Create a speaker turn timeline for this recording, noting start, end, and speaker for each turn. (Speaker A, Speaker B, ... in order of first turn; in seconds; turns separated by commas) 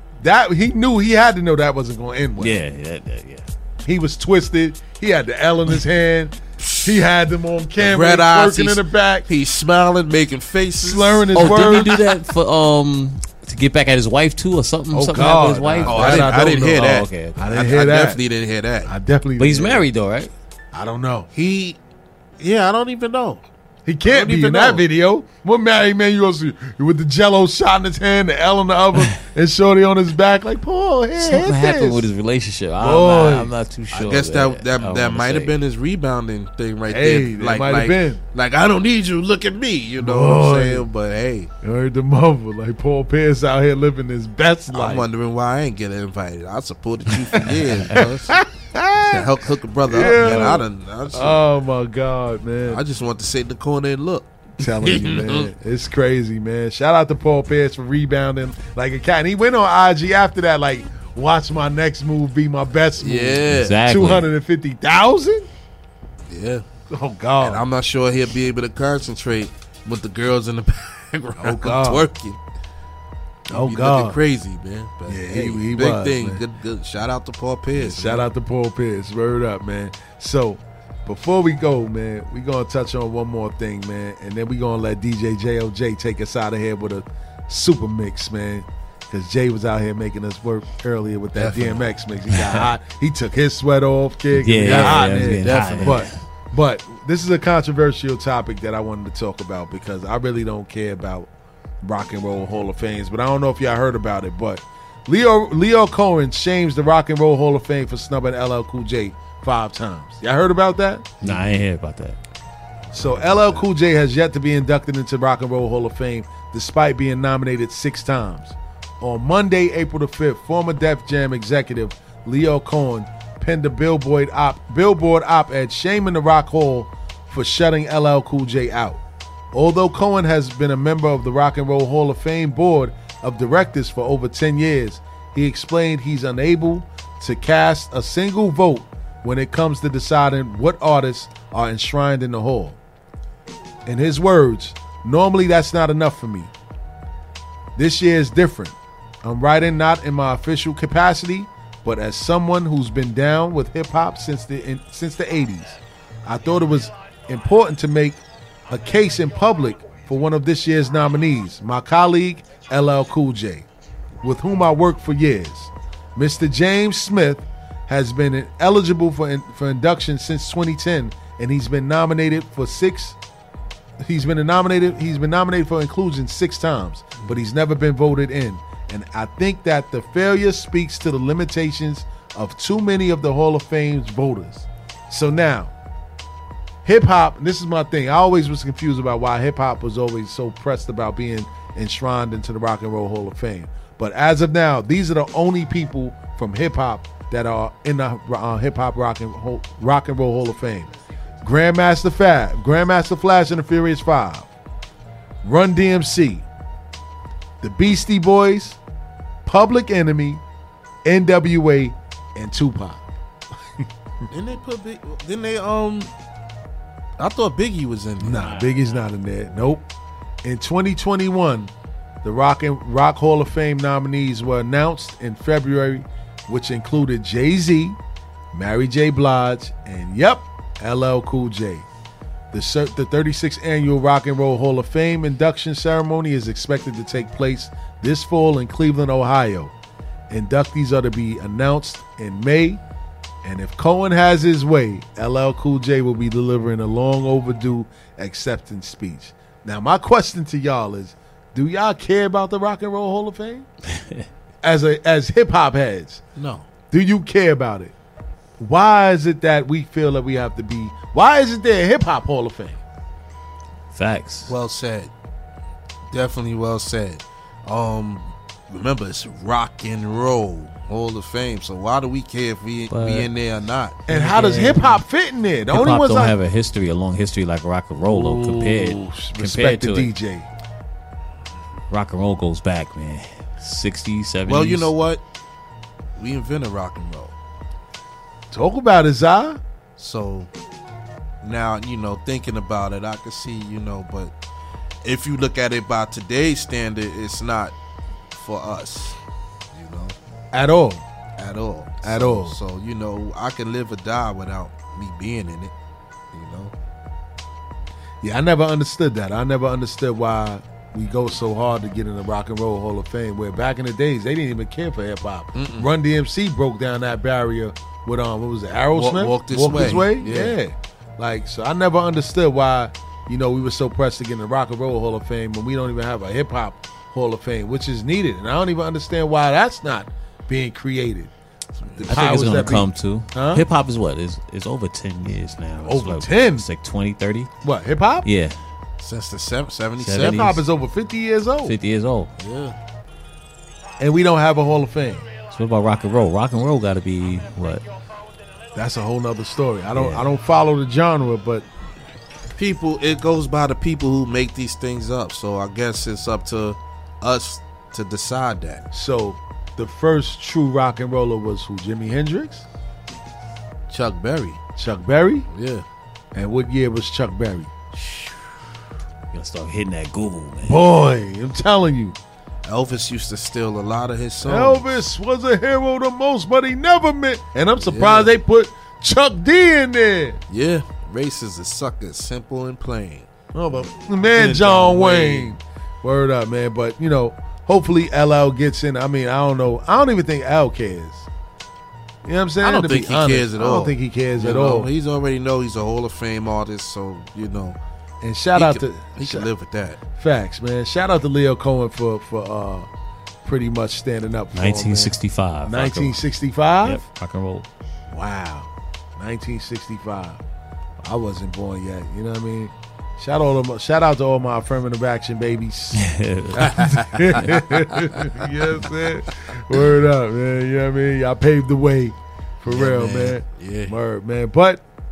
Speaker A: 0.2-2.6, Speaker B: 2.4-3.5, Speaker A: 3.8-9.3, Speaker C: 6.6-7.0, Speaker C: 7.8-11.9, Speaker A: 10.8-12.0, Speaker B: 11.3-17.5, Speaker A: 14.9-18.2, Speaker C: 15.8-18.9, Speaker A: 18.9-19.9, Speaker B: 19.4-20.3, Speaker A: 20.7-21.3, Speaker C: 21.3-21.8, Speaker C: 22.4-23.4, Speaker A: 23.9-32.0, Speaker C: 24.1-24.8, Speaker B: 31.2-35.5, Speaker A: 32.8-33.5, Speaker C: 33.9-41.5, Speaker A: 36.9-38.2, Speaker A: 40.0-40.9, Speaker A: 41.6-45.1, Speaker C: 44.7-48.4, Speaker A: 48.0-49.3, Speaker C: 49.1-51.4, Speaker A: 49.9-52.8, Speaker C: 52.7-55.5, Speaker A: 54.6-65.5, Speaker C: 63.0-63.8, Speaker B: 63.5-64.3, Speaker C: 66.3-66.7, Speaker A: 66.9-67.6, Speaker C: 67.4-72.4, Speaker A: 71.4-72.1, Speaker A: 73.5-74.2, Speaker C: 73.5-78.3, Speaker A: 75.1-76.4, Speaker A: 77.7-101.3, Speaker C: 91.4-91.9, Speaker B: 94.3-96.2, Speaker C: 94.6-96.1, Speaker A: 101.8-111.2, Speaker B: 111.2-112.2, Speaker A: 112.9-129.0, Speaker A: 129.5-142.8, Speaker A: 143.9-146.5, Speaker A: 147.8-163.7, Speaker A: 164.2-173.2, Speaker A: 174.0-185.7, Speaker A: 186.8-200.9, Speaker A: 201.4-204.5, Speaker A: 205.4-206.4, Speaker A: 207.6-208.8, Speaker A: 209.4-210.4, Speaker A: 211.1-213.0, Speaker C: 214.3-216.1, Speaker C: 217.2-218.7, Speaker A: 218.2-219.9, Speaker A: 220.4-221.7, Speaker A: 222.2-228.0, Speaker A: 228.5-231.9, Speaker A: 232.5-239.7, Speaker A: 240.3-242.8, Speaker A: 243.4-253.7, Speaker A: 254.6-256.2, Speaker C: 256.4-256.7, Speaker A: 256.9-257.9, Speaker A: 258.6-262.8, Speaker B: 263.9-264.5, Speaker C: 264.5-265.1, Speaker C: 266.1-274.0, Speaker B: 272.9-273.3, Speaker B: 274.1-274.9, Speaker A: 274.1-276.4, Speaker B: 275.7-280.1, Speaker A: 278.1-280.5, Speaker B: 281.9-284.9, Speaker C: 284.5-285.2, Speaker C: 286.2-287.3, Speaker A: 288.5-289.6, Speaker C: 290.0-290.5, Speaker C: 291.4-294.3, Speaker C: 295.0-297.7, Speaker C: 298.3-299.2, Speaker C: 299.7-300.1, Speaker A: 300.5-301.1, Speaker C: 301.4-305.7, Speaker A: 302.0-302.6, Speaker C: 306.3-306.7, Speaker A: 308.2-331.3, Speaker C: 315.6-315.9, Speaker C: 318.9-320.6, Speaker C: 331.8-332.4, Speaker A: 332.0-333.7, Speaker B: 332.1-337.5, Speaker A: 335.8-336.7, Speaker A: 337.6-338.3, Speaker B: 338.2-338.6, Speaker C: 339.0-340.6, Speaker B: 340.0-340.6, Speaker A: 340.2-341.8, Speaker B: 341.7-342.3, Speaker C: 342.4-342.8, Speaker A: 344.0-345.3, Speaker B: 345.5-347.8, Speaker A: 348.8-351.7, Speaker B: 349.9-350.2, Speaker C: 352.6-358.8, Speaker A: 358.9-362.6, Speaker C: 363.9-364.6, Speaker A: 364.8-365.5, Speaker C: 365.5-365.9, Speaker A: 366.3-367.7, Speaker C: 367.9-368.4, Speaker B: 369.3-370.8, Speaker A: 370.6-372.2, Speaker C: 372.6-375.0, Speaker A: 374.4-380.4, Speaker C: 377.8-378.3, Speaker C: 380.5-383.3, Speaker A: 383.5-391.3, Speaker C: 384.3-385.5, Speaker A: 392.3-394.9, Speaker C: 392.6-397.8, Speaker A: 398.2-399.5, Speaker C: 398.6-400.0, Speaker A: 400.1-402.9, Speaker A: 403.4-405.1, Speaker B: 404.6-406.2, Speaker A: 405.7-407.0, Speaker B: 406.8-407.7, Speaker A: 408.1-410.4, Speaker A: 411.0-416.0, Speaker B: 415.9-416.7, Speaker A: 416.6-424.8, Speaker C: 416.6-417.6, Speaker C: 422.7-424.0